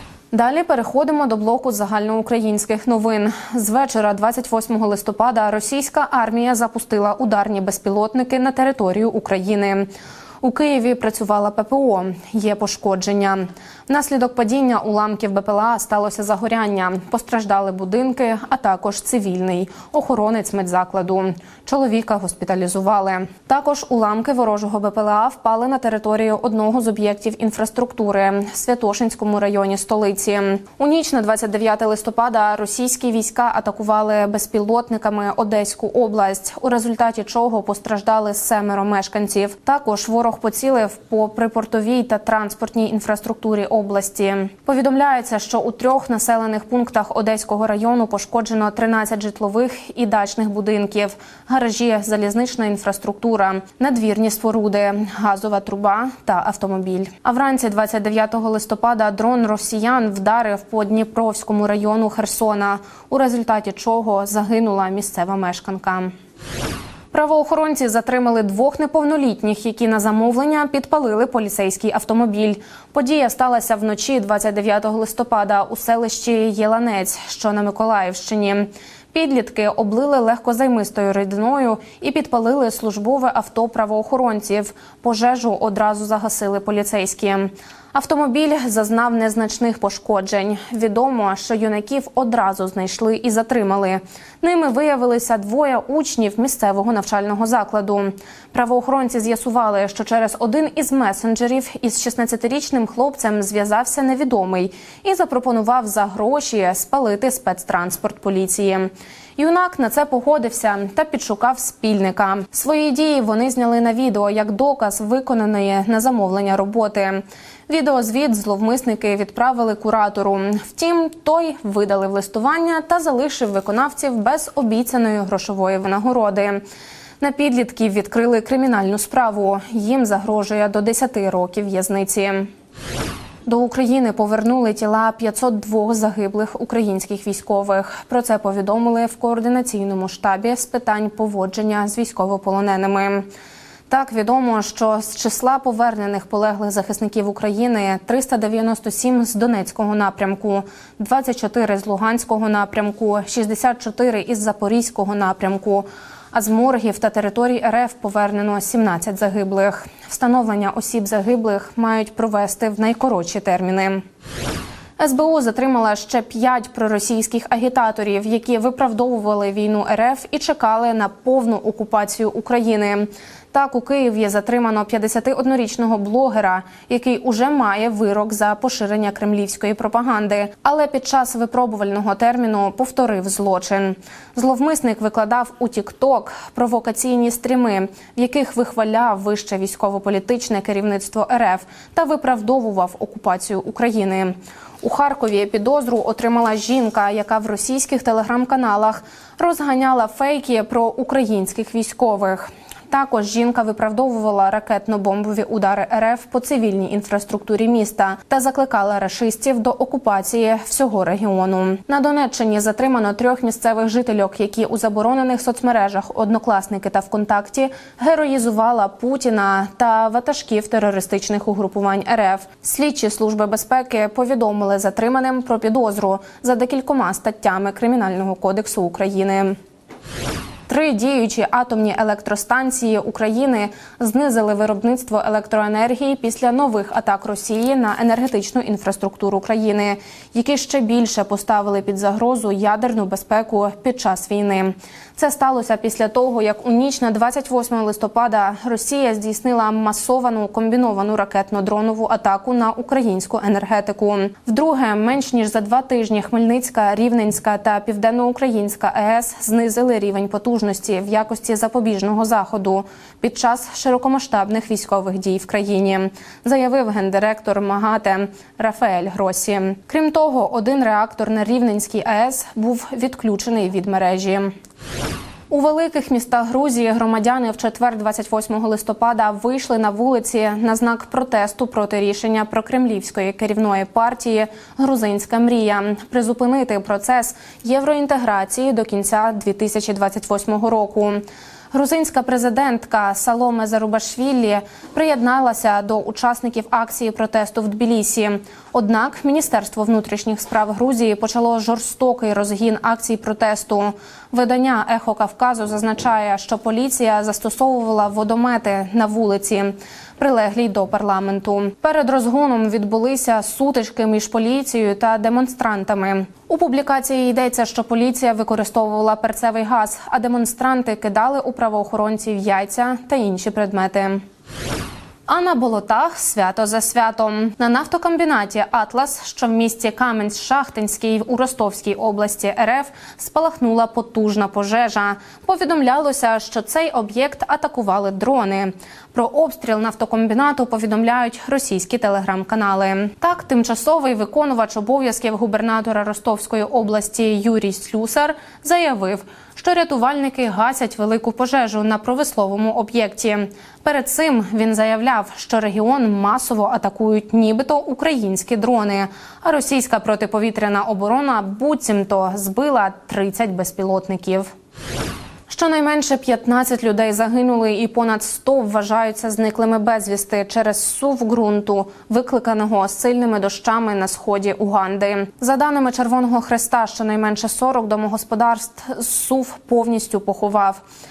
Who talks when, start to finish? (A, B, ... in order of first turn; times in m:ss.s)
0:00.3-0:09.9 A
0:10.4-1:06.1 A
1:07.1-2:06.6 A
2:07.2-2:12.5 A
2:13.4-2:23.3 A
2:23.9-2:44.0 A
2:45.0-3:49.6 A
3:50.7-4:34.5 A
4:35.5-5:24.2 A
5:25.3-6:04.5 A
6:05.5-6:20.8 A